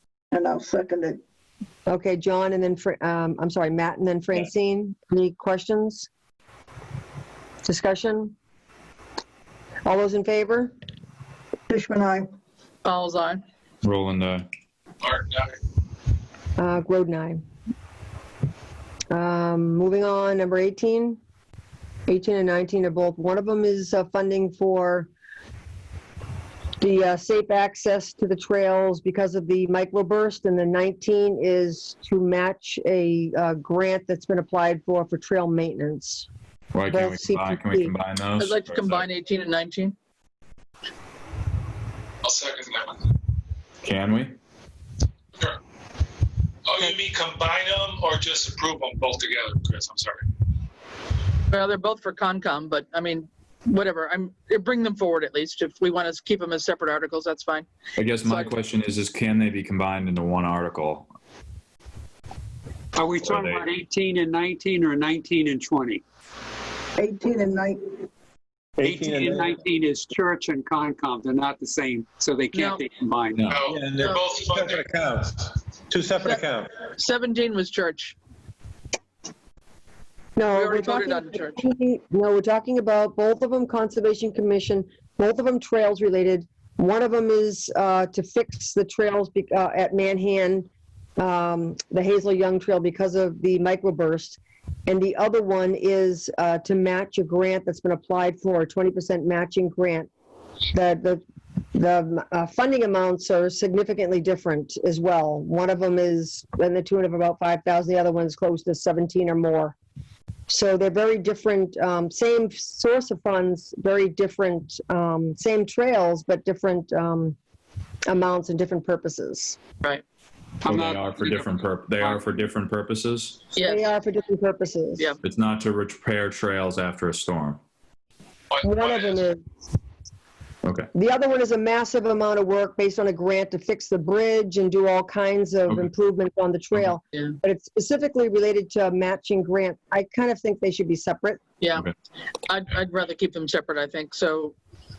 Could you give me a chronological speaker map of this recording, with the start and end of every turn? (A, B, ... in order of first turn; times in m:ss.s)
0:00.3-0:01.2 A
0:01.9-0:06.1 B
0:07.6-0:08.3 B
0:09.8-0:10.7 B
0:11.7-0:12.3 A
0:12.8-0:13.4 C
0:13.8-0:14.4 D
0:15.0-0:15.6 E
0:16.6-0:17.4 B
0:19.1-0:21.2 B
0:22.1-0:25.1 B
0:26.8-0:36.3 B
0:36.7-0:39.0 D
0:36.9-0:37.9 B
0:38.4-0:39.9 C
0:42.2-0:43.1 E
0:43.8-0:44.4 D
0:46.6-0:50.3 E
0:51.5-0:57.7 C
0:58.0-1:01.1 D
0:58.2-0:58.5 C
1:03.0-1:06.0 F
1:03.2-1:03.6 D
1:07.0-1:07.6 A
1:08.8-1:09.6 G
1:08.8-1:13.6 F
1:12.5-1:12.8 C
1:13.4-1:13.6 D
1:13.5-1:14.9 E
1:13.6-1:16.7 G
1:16.9-1:18.2 C
1:20.4-1:40.1 B
1:20.5-1:21.6 C
1:40.7-1:41.2 B
1:41.7-1:49.8 B
1:50.5-1:57.4 B
1:58.1-1:59.6 B
2:00.6-2:02.2 F
2:00.6-2:03.4 D
2:03.5-2:03.8 C
2:03.6-2:05.1 B
2:05.2-2:07.6 D
2:08.5-2:09.2 E
2:08.6-2:09.4 B
2:10.6-2:10.9 D
2:10.9-2:21.4 B
2:21.6-2:21.9 C
2:22.5-2:24.6 C